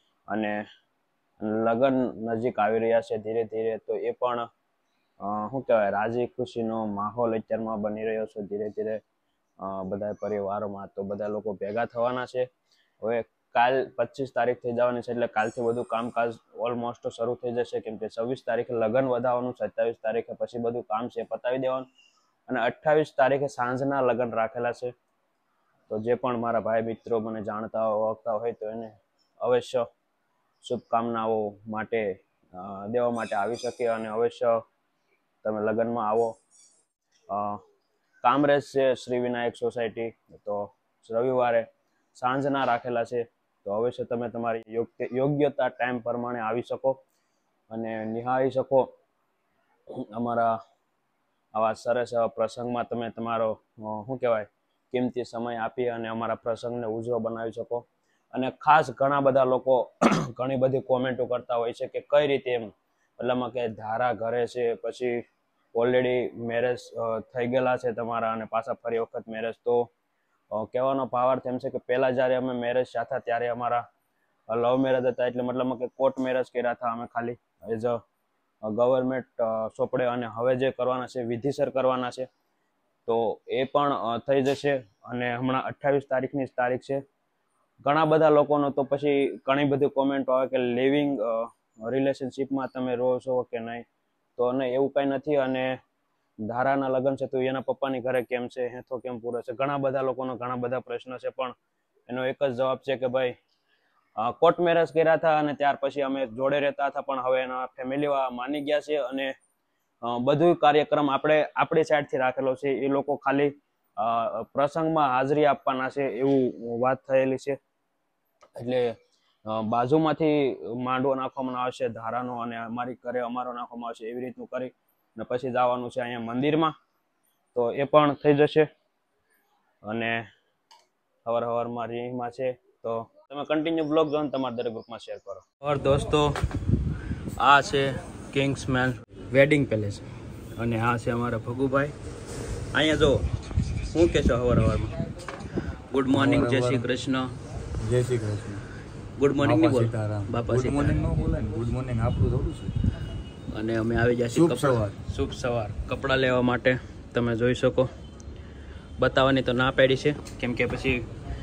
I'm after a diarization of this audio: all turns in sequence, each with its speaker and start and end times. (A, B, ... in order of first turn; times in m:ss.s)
0:00.3-0:00.6 A
0:01.4-0:04.5 A
0:05.2-0:09.0 A
0:09.6-0:12.5 A
0:13.0-0:21.9 A
0:22.5-0:24.9 A
0:25.9-0:29.8 A
0:30.6-0:34.6 A
0:35.4-0:36.3 A
0:37.3-0:37.6 A
0:38.2-0:47.0 A
0:47.7-0:48.9 A
0:49.9-0:50.5 A
0:51.5-1:05.2 A
1:05.7-1:09.9 A
1:10.5-1:13.8 A
1:14.5-1:18.0 A
1:18.6-1:22.3 A
1:23.1-1:27.0 A
1:27.8-1:33.8 A
1:34.4-1:35.7 A
1:36.5-1:41.6 A
1:42.1-1:43.3 A
1:44.2-1:49.3 A
1:50.0-1:57.6 A
1:58.6-1:58.9 A
1:59.5-2:06.7 A
2:07.5-2:08.7 A
2:09.8-2:10.2 A
2:11.3-2:16.4 A
2:17.4-2:20.0 A
2:20.6-2:21.9 A
2:22.7-2:23.2 A
2:23.9-2:25.0 A
2:25.9-2:27.3 A
2:26.1-2:26.9 B
2:27.8-2:28.6 B
2:29.2-2:31.0 A
2:29.4-2:32.8 B
2:33.5-2:37.9 A
2:34.3-2:35.0 B
2:39.0-2:41.0 A